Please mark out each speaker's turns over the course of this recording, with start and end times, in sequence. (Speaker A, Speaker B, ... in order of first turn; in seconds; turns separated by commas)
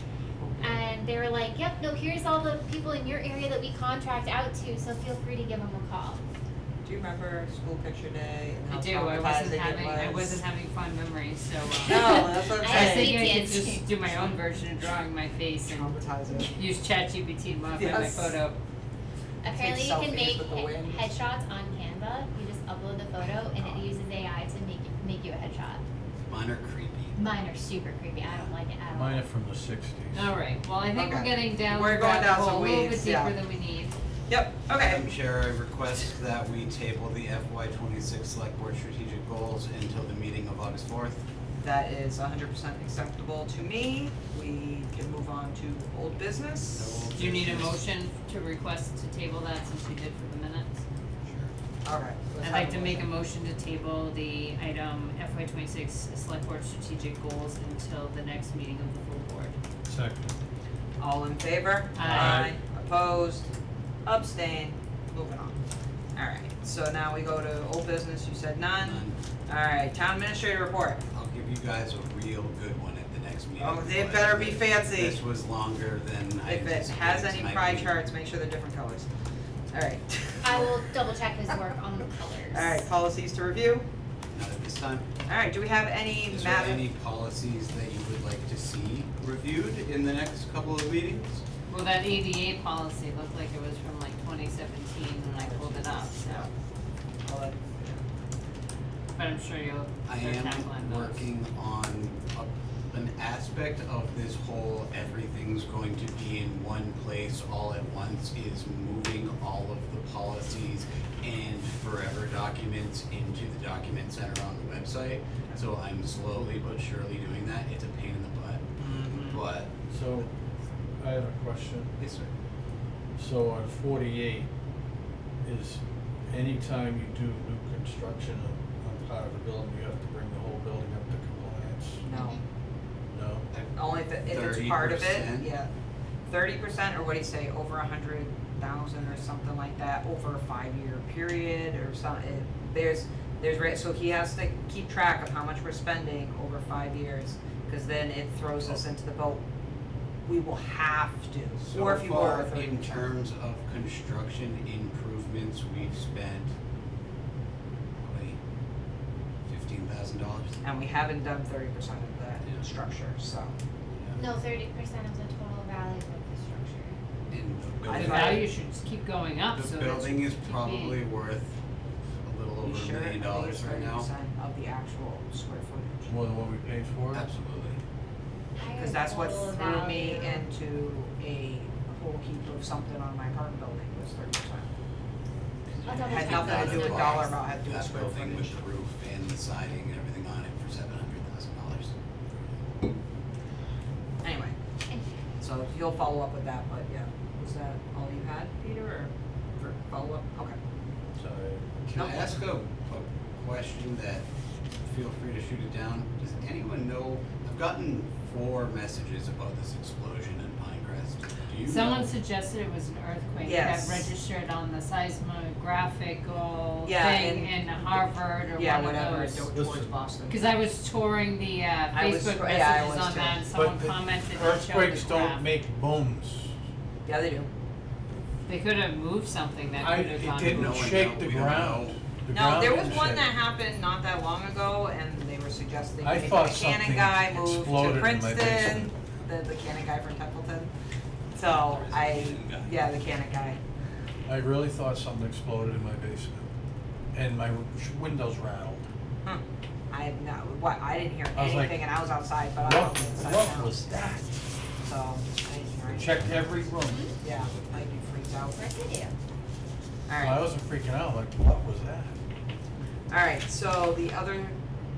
Speaker A: 0.4-0.8, Speaker B: 0.6-6.2, Speaker A: 6.8-10.4, Speaker C: 8.7-16.0, Speaker A: 11.9-13.2, Speaker B: 11.9-13.8, Speaker A: 14.1-15.0, Speaker A: 15.6-16.6, Speaker C: 16.6-18.6, Speaker A: 17.7-18.4, Speaker B: 19.4-25.8, Speaker A: 19.5-21.1, Speaker A: 23.5-23.9, Speaker D: 26.2-27.1, Speaker B: 27.2-29.3, Speaker E: 28.9-30.3, Speaker C: 30.1-34.0, Speaker A: 30.9-33.3, Speaker A: 34.3-35.0, Speaker D: 34.7-41.2, Speaker A: 41.6-47.0, Speaker D: 46.7-47.8, Speaker C: 47.1-50.8, Speaker D: 51.2-51.5, Speaker A: 51.8-53.1, Speaker C: 52.4-59.6, Speaker E: 59.9-60.3, Speaker A: 61.0-63.5, Speaker C: 62.0-62.5, Speaker E: 62.0-62.5, Speaker A: 64.0-65.6, Speaker A: 66.2-71.0, Speaker D: 68.8-69.2, Speaker D: 71.1-78.0, Speaker A: 73.6-75.2, Speaker A: 76.5-79.1, Speaker A: 79.7-80.8, Speaker B: 80.4-82.9, Speaker A: 82.5-83.9, Speaker D: 84.3-85.1, Speaker A: 85.3-86.9, Speaker D: 86.3-91.4, Speaker C: 91.7-96.5, Speaker A: 95.3-96.5, Speaker A: 97.2-98.0, Speaker C: 99.2-101.3, Speaker D: 100.1-119.7, Speaker E: 119.9-120.3, Speaker E: 121.0-122.0, Speaker D: 122.0-122.3, Speaker E: 123.2-124.5, Speaker E: 125.4-132.1, Speaker A: 132.0-132.4, Speaker B: 132.1-132.4, Speaker E: 133.1-133.5, Speaker D: 133.5-135.5, Speaker A: 133.7-135.7, Speaker A: 136.3-149.4, Speaker A: 150.2-153.1, Speaker D: 151.7-156.5, Speaker D: 158.0-158.4, Speaker D: 159.5-160.6, Speaker A: 160.6-163.5, Speaker D: 163.9-164.2, Speaker B: 164.2-167.0, Speaker D: 167.3-168.4, Speaker E: 167.8-168.2, Speaker A: 167.9-168.4, Speaker C: 168.0-171.0, Speaker D: 169.5-171.6, Speaker D: 172.2-174.1, Speaker A: 172.6-176.1, Speaker E: 176.1-177.3, Speaker D: 177.1-177.8, Speaker B: 178.6-180.4, Speaker A: 178.8-184.7, Speaker D: 185.7-191.9, Speaker B: 185.9-187.3, Speaker A: 186.0-188.6, Speaker A: 194.2-194.6, Speaker A: 195.4-200.6, Speaker E: 201.2-202.1, Speaker D: 201.9-204.3, Speaker A: 201.9-202.3, Speaker D: 204.8-212.1, Speaker C: 211.6-219.5, Speaker A: 213.4-214.1, Speaker A: 216.8-220.6, Speaker E: 219.5-220.0, Speaker C: 220.3-225.4, Speaker A: 221.9-223.4, Speaker E: 223.5-226.5, Speaker A: 227.1-227.5, Speaker C: 228.5-231.0, Speaker E: 229.8-233.3, Speaker D: 230.4-232.0, Speaker A: 232.3-240.7, Speaker E: 236.0-238.9, Speaker A: 241.3-243.6, Speaker D: 241.4-242.8, Speaker E: 244.3-246.4, Speaker E: 247.1-248.8, Speaker A: 249.2-253.9, Speaker E: 251.3-254.3, Speaker A: 254.8-258.6, Speaker E: 255.9-257.1, Speaker B: 256.8-257.2, Speaker B: 258.6-259.1, Speaker A: 260.1-260.4, Speaker E: 260.2-262.2, Speaker A: 263.1-264.6